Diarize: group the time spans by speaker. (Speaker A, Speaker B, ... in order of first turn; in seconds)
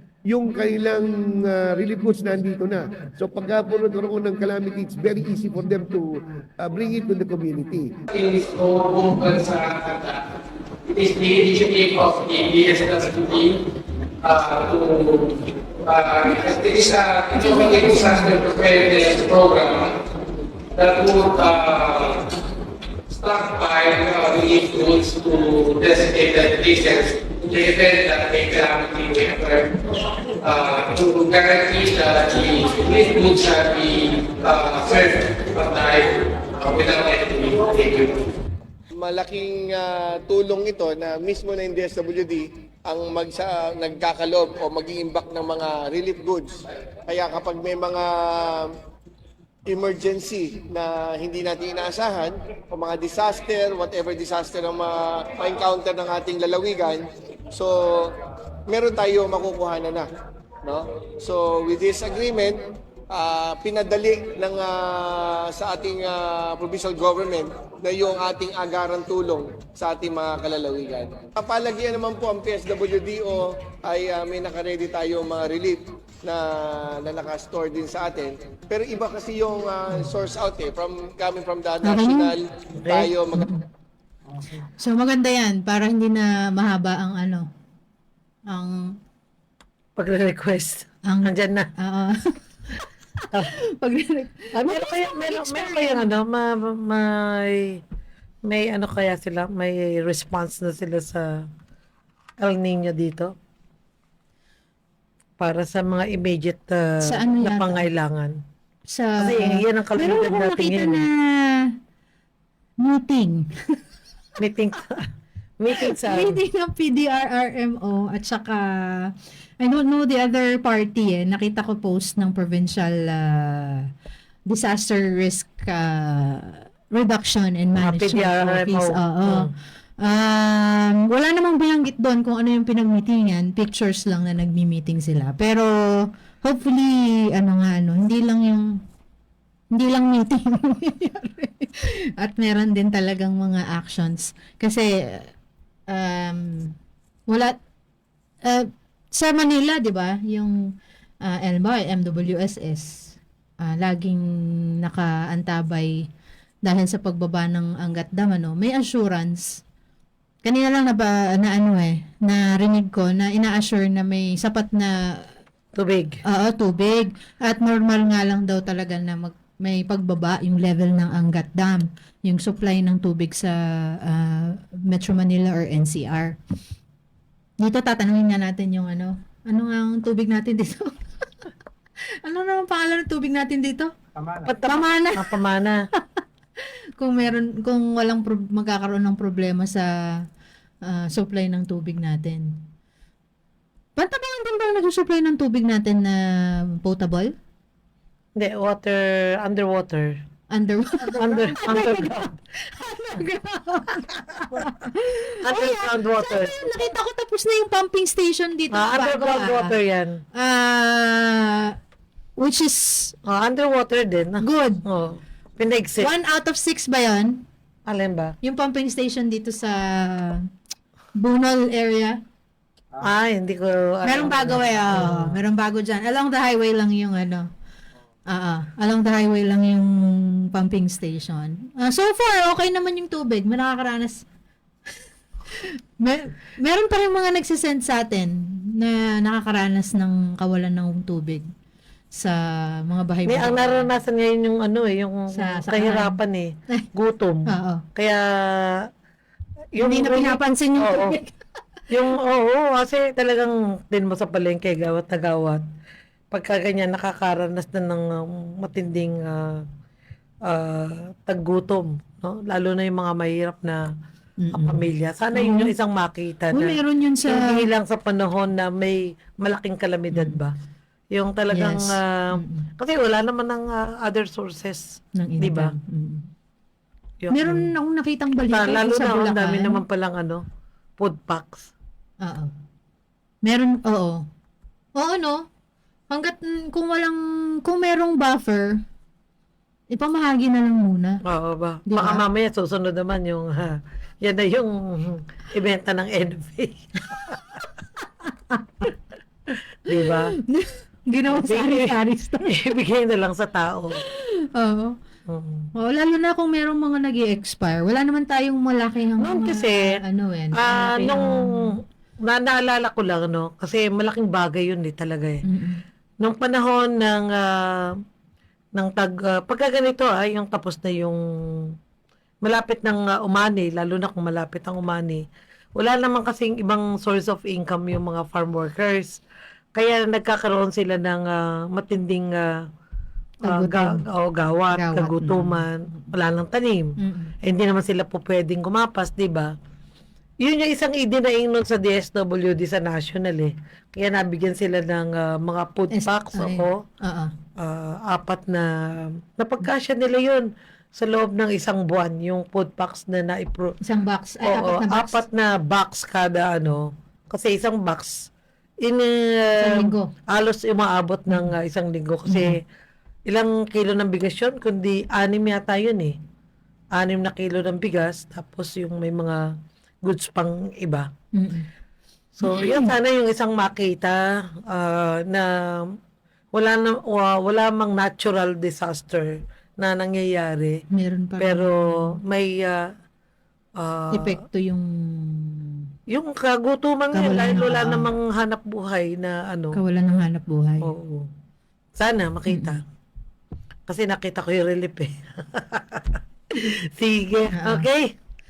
Speaker A: 0.3-7.9
Speaker B: 8.1-10.2, 10.9-13.6, 14.2-20.0, 20.8-22.3, 23.1-29.8, 30.4-38.3
Speaker C: 17.4-18.4, 81.8-82.3, 83.3-83.7, 84.7-87.5, 88.5-89.0, 91.1-96.1, 107.0-107.9, 108.9-111.8, 112.8-113.8, 115.8-123.9, 124.5-129.5, 130.0-138.8, 139.7-145.3, 145.9-146.8, 147.3-147.6, 148.4-150.6, 151.2-154.2, 154.8-156.1, 156.6-159.6, 160.4-165.4, 166.3-176.4, 177.6-181.5, 182.2-183.9, 184.7-185.3, 186.0-186.2, 187.0-190.3, 190.8-192.6, 194.0-197.3, 200.5-209.7, 210.3-211.8, 212.4-213.2, 214.4-214.8, 216.0-217.4, 218.4-220.4, 221.2-222.2, 224.1-227.5, 228.3-234.2, 235.5-241.4, 242.1-243.9, 245.3-246.2, 247.5-247.8, 249.8-251.4, 264.4-265.7, 266.5-267.6, 270.1-270.4, 271.5-272.7, 275.1-276.3, 277.3-279.8, 282.2-282.5, 283.4-284.3, 285.0-285.5, 286.1-288.8, 289.9-291.2, 291.9-292.3, 298.5-298.9, 300.0-302.6, 304.0-305.0, 305.8-311.8, 315.4-315.8, 333.4-334.0, 334.7-336.1, 337.0-337.4, 345.9-347.3, 353.8-355.2, 359.6-360.1, 362.3-362.6, 371.3-371.7, 372.4-372.9, 380.9-382.2, 384.1-385.9, 387.1-388.1, 389.7-390.9, 392.5-392.8, 397.6-397.9
Speaker D: 39.0-48.7, 49.7-58.2, 58.7-60.1, 60.6-62.6, 63.1-83.5
Speaker E: 82.8-83.1, 90.0-91.7, 94.5-97.8, 98.5-101.5, 102.4-103.3, 105.4-108.4, 109.2-111.0, 114.4-115.1, 115.6-116.4, 127.8-129.5, 165.8-166.2, 184.4-185.8, 198.4-200.2, 201.1-202.3, 205.4-206.7, 208.7-210.2, 213.3-216.1, 217.9-218.3, 223.0-225.4, 243.3-248.8, 249.8-251.2, 251.9-255.6, 256.3-259.7, 260.5-263.8, 264.5-270.6, 271.1-275.7, 277.2-277.7, 278.5-280.4, 281.0-281.7, 291.3-297.6, 299.9-300.4, 301.3-304.0, 305.3-305.7, 309.2-309.9, 310.6-315.4, 316.2-318.0, 318.8-321.8, 322.4-325.2, 325.8-329.2, 329.8-332.5, 333.4-339.5, 340.4-346.8, 347.6-353.7, 354.4-358.3, 358.8-362.6, 363.3-366.2, 366.9-369.4, 370.0-371.1, 372.4-375.9, 376.5-380.8, 381.4-382.8, 383.8-384.4, 386.1-389.8, 390.8-391.3, 392.0-392.8, 393.9-398.1